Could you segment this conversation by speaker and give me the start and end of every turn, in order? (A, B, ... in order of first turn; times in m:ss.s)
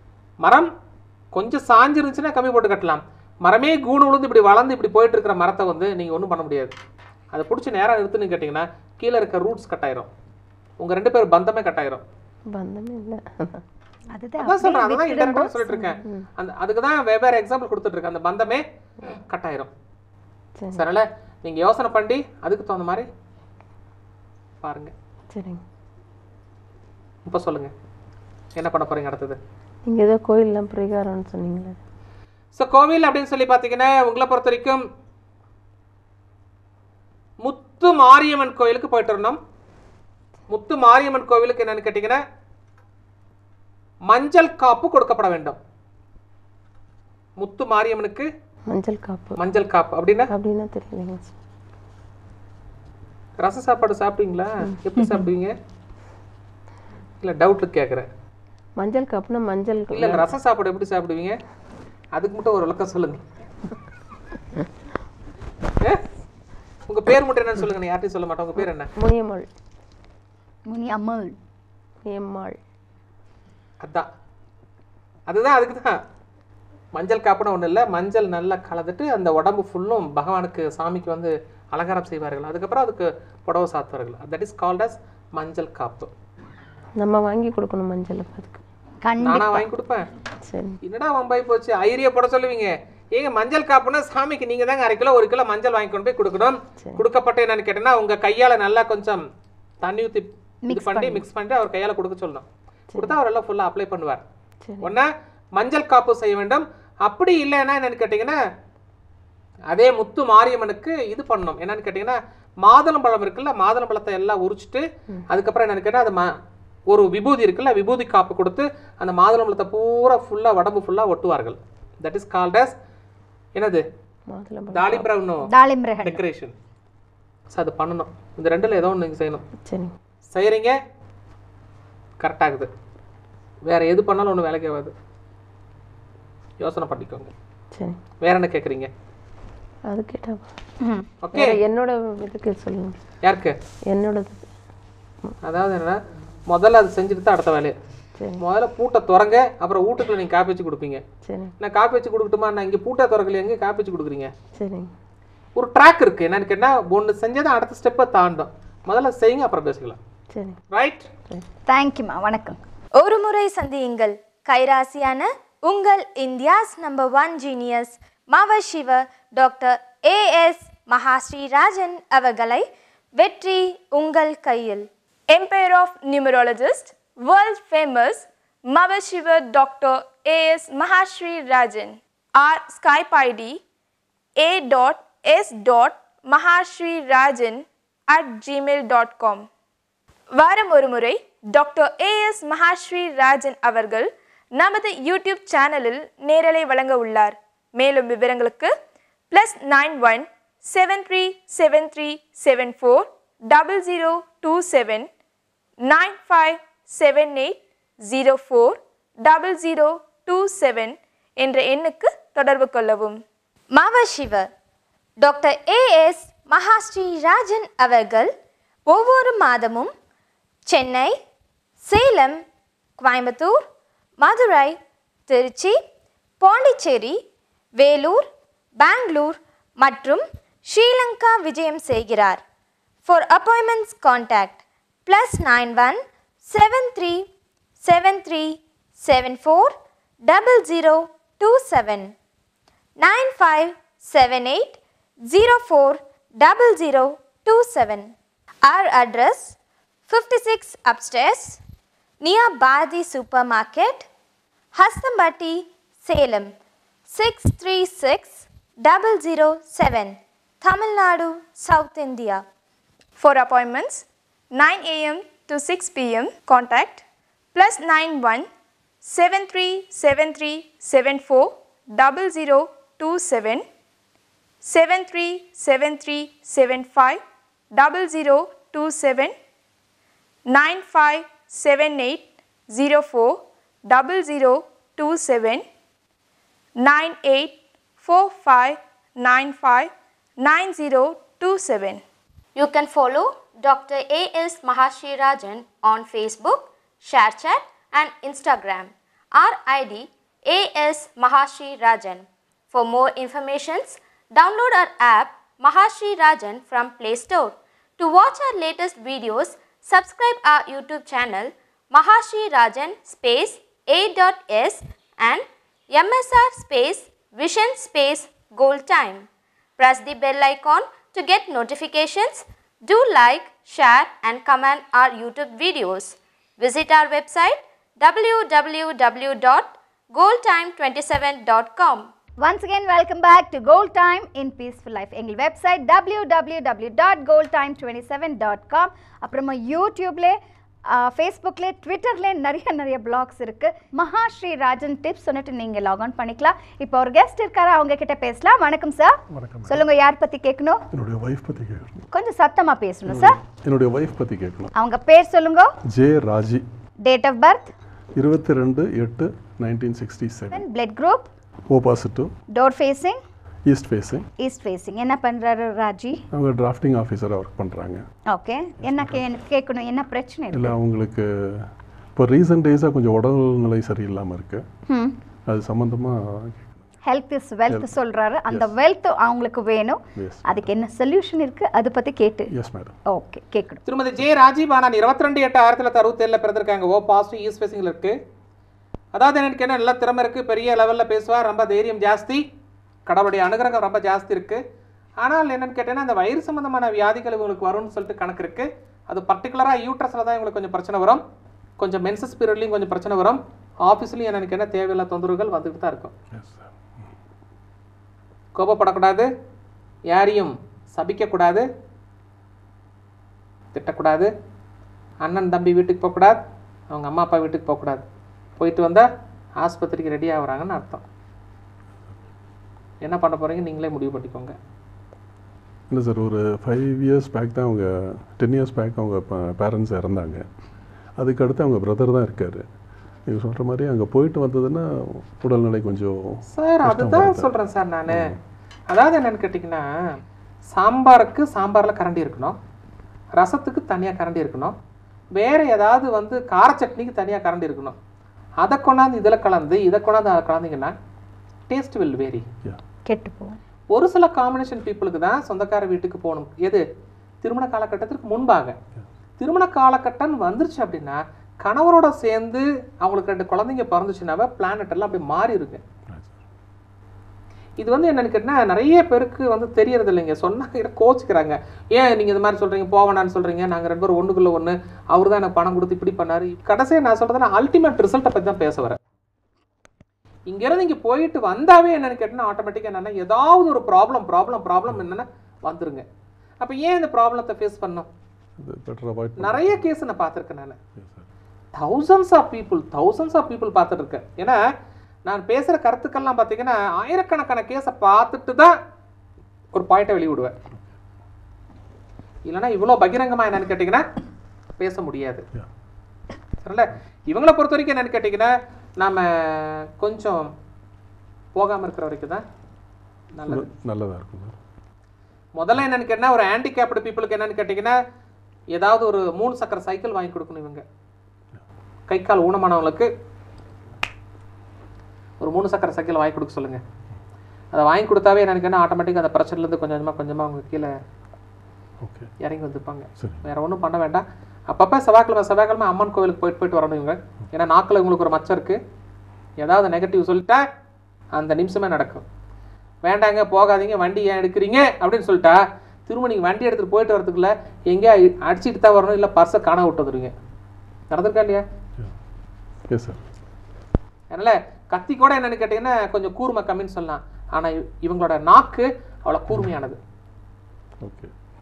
0:00.4-0:00.7 A
0:01.3-0:06.7 A
0:07.3-0:10.1 A
0:10.8-0:12.0 A
0:12.5-0:13.6 B
0:14.1-0:16.0 C
0:14.4-0:18.6 A
0:19.2-0:19.7 A
0:20.6-0:20.8 B
0:20.7-0:23.1 A
0:24.6-0:24.9 A
0:25.3-0:25.6 B
0:27.2-0:27.7 A
0:28.5-0:29.4 A
0:29.8-0:31.8 B
0:32.6-0:34.8 A
0:37.4-0:39.4 A
0:40.5-0:42.2 A
0:44.1-0:45.6 A
0:47.4-0:48.3 A
0:48.7-0:49.4 B
0:49.4-0:50.3 A
0:50.3-0:51.3 B
0:53.4-0:55.5 A
0:57.2-0:58.0 A
0:58.8-1:00.3 B
0:59.9-1:01.4 A
1:02.1-1:03.2 A
1:06.9-1:08.9 A
1:09.0-1:09.5 B
1:10.7-1:11.3 C
1:12.0-1:12.6 B
1:13.8-1:14.1 A
1:15.3-1:16.0 A
1:16.9-1:26.1 A
1:27.0-1:28.6 B
1:29.0-1:29.7 C
1:29.2-1:30.0 A
1:30.4-1:30.8 B
1:30.8-1:39.2 A
1:39.8-1:44.2 A
1:40.7-1:41.2 C
1:44.6-1:44.9 B
1:44.8-1:48.4 A
1:49.7-1:56.3 A
1:56.9-2:02.7 A
2:03.6-2:03.8 A
2:04.3-2:05.1 B
2:04.7-2:05.5 A
2:05.5-2:06.2 C
2:06.0-2:06.5 A
2:07.5-2:09.4 A
2:09.6-2:09.9 B
2:10.3-2:10.8 A
2:12.2-2:12.7 A
2:13.6-2:14.9 A
2:16.6-2:17.3 A
2:17.7-2:18.0 B
2:18.2-2:18.9 A
2:19.9-2:20.5 B
2:20.8-2:21.1 C
2:21.2-2:21.5 A
2:21.3-2:23.0 B
2:23.2-2:23.5 A
2:23.9-2:24.5 B
2:25.4-2:27.7 A
2:28.4-2:31.0 A
2:31.2-2:31.5 B
2:31.6-2:34.3 A
2:34.6-2:34.9 B
2:35.6-2:40.0 A
2:40.3-2:40.6 B
2:40.7-2:41.1 A
2:41.7-2:42.6 C
2:43.0-2:54.9 D
2:55.3-3:03.6 E
3:04.4-3:09.4 E
3:10.4-3:18.7 E
3:19.3-3:25.1 E
3:25.8-3:33.2 E
3:33.7-3:34.5 D
3:35.2-3:38.3 D
3:38.9-3:39.9 D
3:40.7-3:41.2 D
3:41.8-3:42.4 D
3:43.0-3:43.6 D
3:44.2-3:45.8 D
3:46.4-3:47.2 D
3:47.8-3:48.2 D
3:48.8-3:52.4 D
3:53.0-3:57.3 D
3:57.8-3:59.7 D
4:00.2-4:02.1 D
4:03.0-4:09.6 D
4:10.1-4:11.6 D
4:12.2-4:14.1 D
4:14.7-4:16.5 D
4:17.1-4:22.4 D
4:23.2-4:27.0 E
4:27.5-4:28.4 E
4:29.0-4:33.6 E
4:34.6-4:37.2 E
4:37.7-4:39.3 E
4:40.5-4:45.6 E
4:46.8-4:52.0 E
4:52.6-5:19.3 D
5:19.8-5:32.1 D
5:32.4-5:50.8 C
5:49.3-5:49.8 F
5:50.9-5:52.0 F
5:52.1-5:53.4 C
5:53.0-5:54.7 F
5:54.7-5:55.7 C
5:55.9-5:56.6 F
5:57.0-5:57.7 C
5:58.2-6:00.6 F
6:00.5-6:01.3 C
6:01.7-6:02.3 F
6:02.5-6:03.2 C
6:03.6-6:04.2 F
6:04.4-6:06.2 C
6:06.3-6:08.0 F
6:08.3-6:10.7 C
6:08.8-6:09.2 F
6:10.5-6:14.6 F
6:14.9-6:15.1 C
6:15.5-6:16.8 F
6:17.0-6:22.5 C
6:20.2-6:20.7 F
6:22.5-6:22.9 F
6:23.1-6:23.8 C
6:23.8-6:28.1 A
6:29.1-6:32.4 A
6:33.0-6:34.6 A
6:35.2-6:41.2 A
6:41.8-6:46.1 A
6:46.3-6:46.7 F
6:48.5-6:49.3 A
6:50.1-6:51.6 A
6:53.7-6:54.3 A
6:55.2-6:56.4 A
6:56.9-6:58.0 A
6:58.6-6:59.1 A
6:59.6-7:01.0 A
7:03.0-7:04.5 A
7:05.9-7:10.4 F
7:11.2-7:12.6 F
7:13.3-7:17.5 F
7:16.5-7:18.3 A
7:18.1-7:18.4 F
7:18.9-7:19.8 A
7:20.7-7:22.6 A
7:23.4-7:24.7 A
7:25.3-7:28.0 A
7:28.6-7:30.9 A
7:31.7-7:32.4 A
7:33.0-7:33.6 C
7:33.9-7:36.8 A
7:37.4-7:38.8 A
7:39.4-7:45.8 A
7:47.8-7:59.0 A
8:00.5-8:06.0 A
8:06.6-8:08.1 A
8:08.6-8:09.8 F
8:09.4-8:10.8 A
8:11.0-8:11.2 F
8:11.8-8:14.6 A
8:15.2-8:18.8 A
8:19.7-8:20.5 A
8:22.4-8:24.0 A
8:24.8-8:25.5 A
8:26.6-8:30.4 A
8:31.5-8:32.4 A
8:33.3-8:33.7 A
8:33.5-8:34.6 F
8:35.6-8:38.0 A
8:38.7-8:40.8 A
8:42.1-8:43.1 A
8:45.4-8:46.8 A
8:47.7-8:50.9 A
8:52.0-8:52.3 F
8:52.4-8:58.8 A
8:53.2-8:53.4 F
8:59.6-9:00.6 A
9:01.3-9:02.2 A
9:03.0-9:10.3 A
9:11.1-9:11.6 A
9:12.9-9:13.2 F
9:14.3-9:20.0 A
9:21.0-9:21.3 F